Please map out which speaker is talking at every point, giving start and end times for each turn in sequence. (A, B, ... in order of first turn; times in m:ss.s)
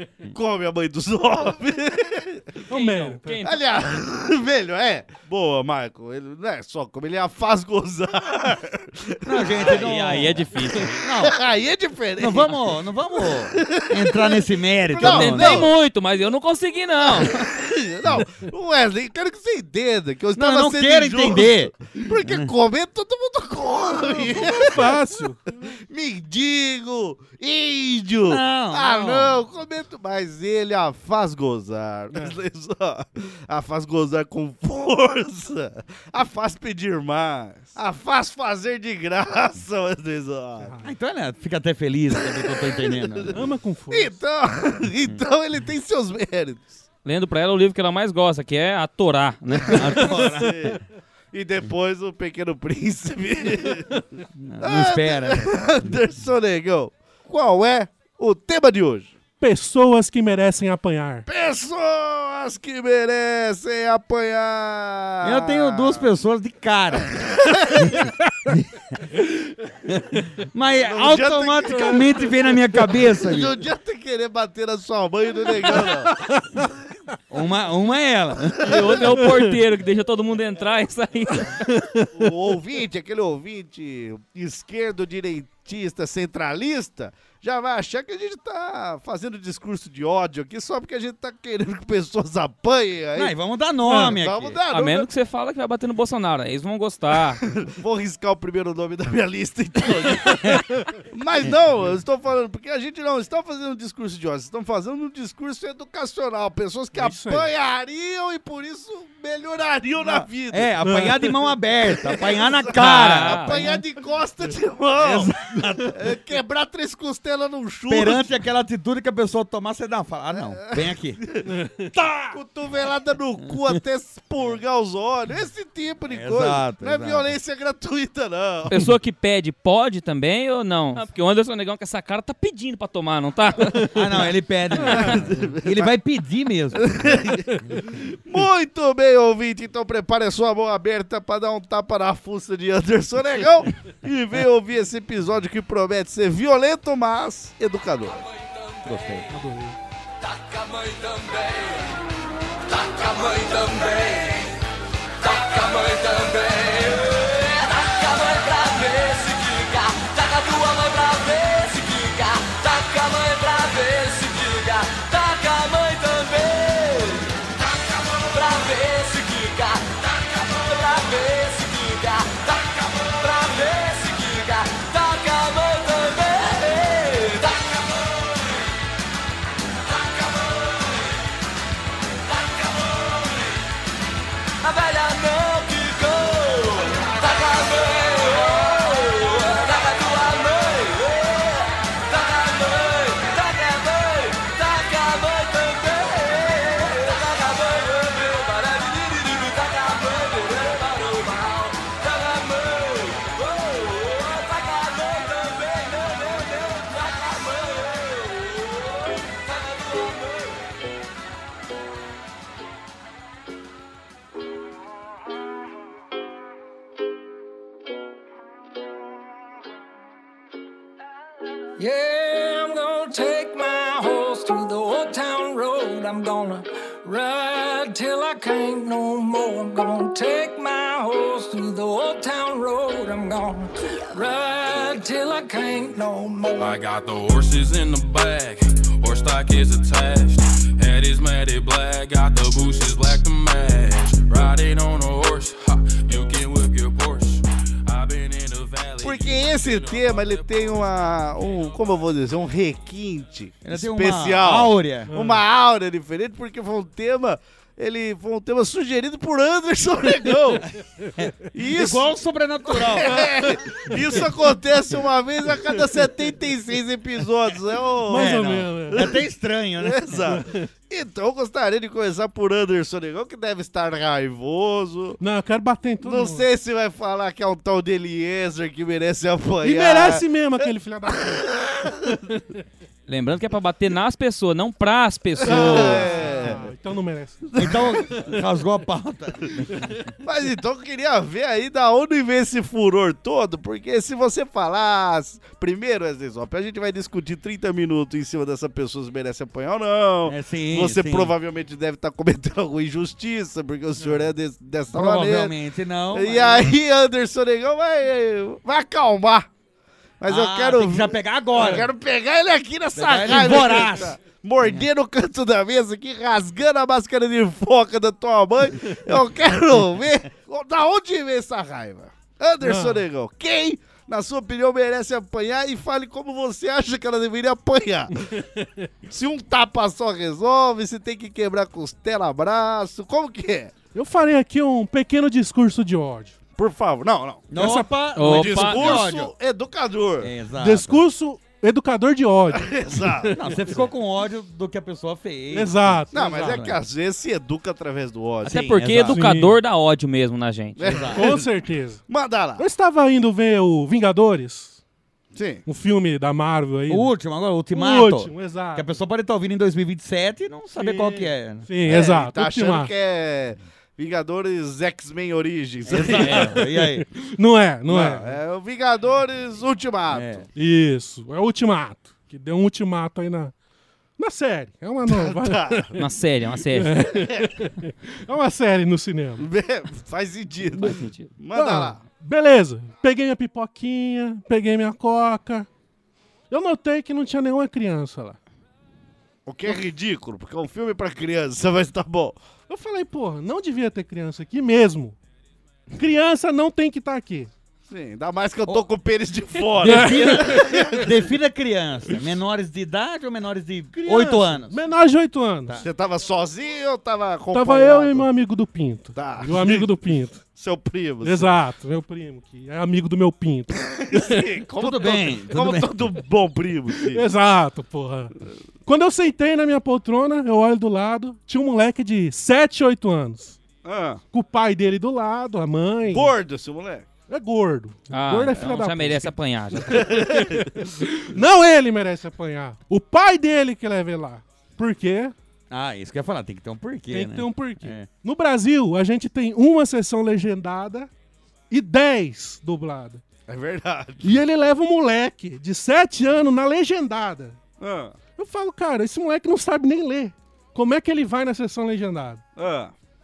0:00.3-0:02.4 A
0:02.7-0:03.3 B
0:02.7-0:03.6 C
0:03.4-0:09.8 A
0:09.2-0:10.5 D
0:09.4-0:11.1 C
0:11.0-0:11.4 D
0:11.2-0:12.6 A
0:12.2-0:15.7 D
0:13.3-0:15.7 A
0:15.0-0:17.5 C
0:17.0-0:24.9 A
0:20.4-0:22.5 D
0:24.1-0:25.5 B
0:25.9-0:40.8 A
0:28.3-0:29.4 D
0:40.8-0:43.4 D
0:42.2-0:43.3 A
0:43.3-0:44.2 B
0:43.9-0:46.8 A
0:47.0-0:50.3 C
0:49.7-0:50.8 A
0:49.8-0:50.8 D
0:51.3-0:54.0 A
0:54.4-0:55.9 D
0:54.6-0:59.1 A
0:59.4-1:01.2 B
1:01.3-1:06.1 A
1:05.2-1:08.7 D
1:07.2-1:08.0 A
1:09.9-1:13.6 D
1:10.8-1:16.2 A
1:15.6-1:16.6 B
1:17.3-1:19.0 D
1:18.6-1:21.8 C
1:19.1-1:19.4 B
1:22.2-1:33.3 A
1:33.2-1:34.6 D
1:33.9-1:35.1 A
1:34.7-1:37.4 C
1:37.6-1:55.4 A
1:47.0-1:47.5 B
1:50.0-1:53.6 D
1:50.8-1:51.3 B
1:52.7-1:53.8 C
1:55.0-1:56.0 D
1:55.9-1:58.3 A
1:57.9-2:01.2 D
2:01.2-2:08.8 A
2:01.5-2:02.3 B
2:06.1-2:07.3 D
2:08.7-2:14.3 C
2:13.9-2:17.2 D
2:14.9-2:15.9 A
2:16.9-2:28.2 A
2:17.5-2:17.8 B
2:28.1-2:29.3 E
2:29.3-2:29.8 B
2:30.2-2:32.0 E
2:32.7-2:34.6 E
2:35.2-2:58.6 E
3:00.0-3:01.0 E
3:02.3-3:03.5 E
3:04.6-3:30.6 E
3:41.8-3:56.8 F
3:56.6-4:11.8 G
4:09.0-4:20.7 A
4:13.6-4:15.1 D
4:15.1-4:15.4 B
4:21.2-4:23.3 D
4:21.5-4:22.1 A
4:22.7-4:29.2 A
4:28.1-4:29.1 B
4:28.1-4:30.2 D
4:29.8-4:35.2 A
4:35.2-4:36.5 B
4:36.0-4:40.3 A
4:39.6-4:42.4 B
4:41.2-4:42.2 A
4:43.1-4:46.1 C
4:45.4-4:46.7 A
4:45.5-4:48.2 B
4:47.5-4:48.3 A
4:47.6-4:50.1 D
4:50.2-5:05.5 A
5:00.3-5:01.4 D
5:04.9-5:06.7 D
5:06.1-5:09.5 A
5:10.2-5:28.3 A
5:10.3-5:11.9 D
5:13.0-5:14.8 D
5:22.6-5:23.0 B
5:29.1-5:33.7 A
5:34.0-5:36.4 B
5:36.6-5:37.6 A
5:37.5-5:39.3 D
5:37.6-5:37.9 B
5:38.2-5:39.1 C
5:38.2-5:40.3 A
5:40.2-5:41.0 D
5:40.6-5:43.2 B
5:42.5-5:43.4 A
5:43.3-5:46.8 D
5:45.5-5:46.6 B
5:46.1-5:48.8 A
5:48.5-5:51.0 C
5:48.5-5:49.2 D
5:49.1-5:49.6 B
5:50.8-5:51.5 A
5:50.9-5:51.3 D
5:51.2-5:52.0 B
5:52.1-5:52.7 A
5:52.6-5:54.8 B
5:55.4-5:55.6 A
5:55.7-5:57.1 B
5:56.9-6:01.7 D
5:57.7-5:58.9 B
6:00.7-6:02.9 B
6:01.8-6:06.5 A
6:05.9-6:07.1 D
6:05.9-6:06.6 C
6:06.6-6:08.4 B
6:07.9-6:10.5 A
6:10.1-6:10.5 D
6:10.6-6:13.5 B
6:14.2-6:16.0 B
6:15.1-6:15.9 A
6:16.0-6:17.0 C
6:16.7-6:19.5 B
6:17.1-6:17.5 A
6:19.4-6:22.0 A
6:20.8-6:21.3 C
6:21.5-6:25.7 B
6:26.5-6:28.4 B
6:29.5-6:32.4 A
6:32.7-6:35.2 B
6:36.0-6:37.5 B
6:37.9-6:41.2 A
6:39.8-6:40.9 B
6:39.8-6:44.8 D
6:43.9-6:45.8 B
6:45.8-6:48.3 A
6:47.5-6:50.4 B
6:49.2-6:49.9 A
6:50.6-6:51.5 A
6:51.2-6:54.5 B
6:53.9-6:57.2 A
6:54.8-6:56.1 D
6:57.1-6:58.3 B
6:58.9-7:03.6 B
7:03.8-7:04.2 A
7:04.3-7:06.3 B
7:06.1-7:07.1 A
7:07.3-7:15.3 B
7:08.1-7:10.2 C
7:10.0-7:10.8 A
7:15.7-7:18.1 D
7:17.1-7:21.1 B
7:21.7-7:23.2 B
7:23.5-7:24.4 A
7:24.2-7:27.6 B
7:27.8-7:28.2 A
7:28.4-7:32.4 B
7:32.6-7:32.9 A